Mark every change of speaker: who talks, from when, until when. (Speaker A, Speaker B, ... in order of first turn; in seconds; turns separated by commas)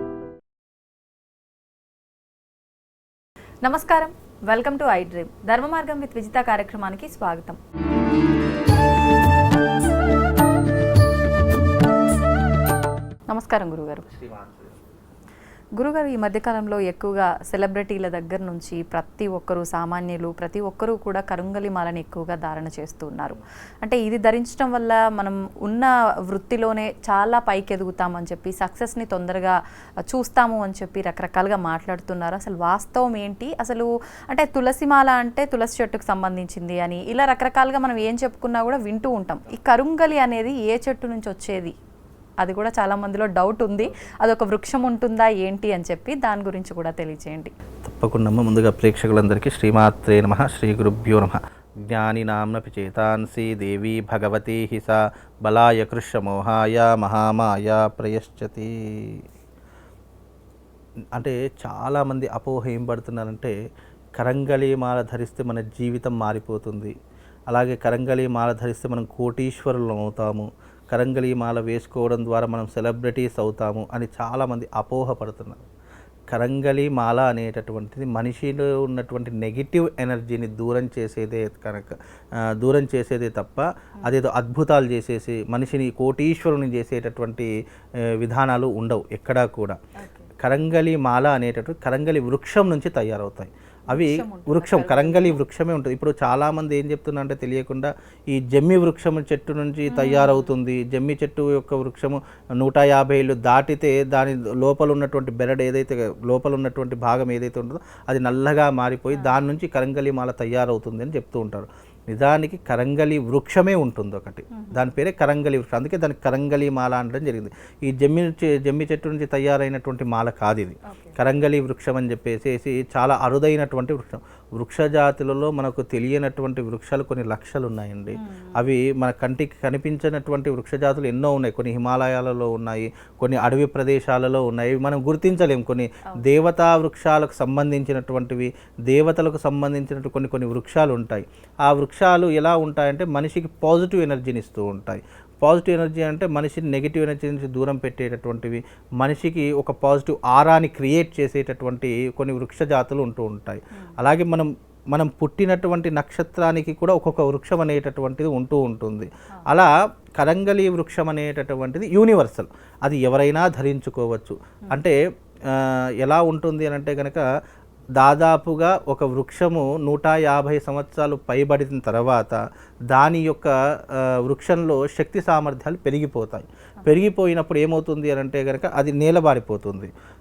Speaker A: 3.6-7.6, Speaker A: 13.3-14.1, Speaker B: 14.1-14.7, Speaker A: 15.8-29.6, Speaker A: 30.1-41.8, Speaker A: 42.4-47.5, Speaker B: 47.9-59.2, Speaker B: 61.1-63.5, Speaker B: 64.2-66.9, Speaker B: 67.5-75.7, Speaker B: 76.3-82.0, Speaker B: 82.6-87.5, Speaker B: 88.2-89.8, Speaker A: 90.0-90.3, Speaker B: 90.4-164.9, Speaker A: 93.9-95.4, Speaker A: 99.9-100.5, Speaker A: 114.5-114.9, Speaker A: 120.9-121.2, Speaker A: 128.2-128.7, Speaker B: 165.5-167.2, Speaker B: 168.0-172.4, Speaker B: 172.9-179.9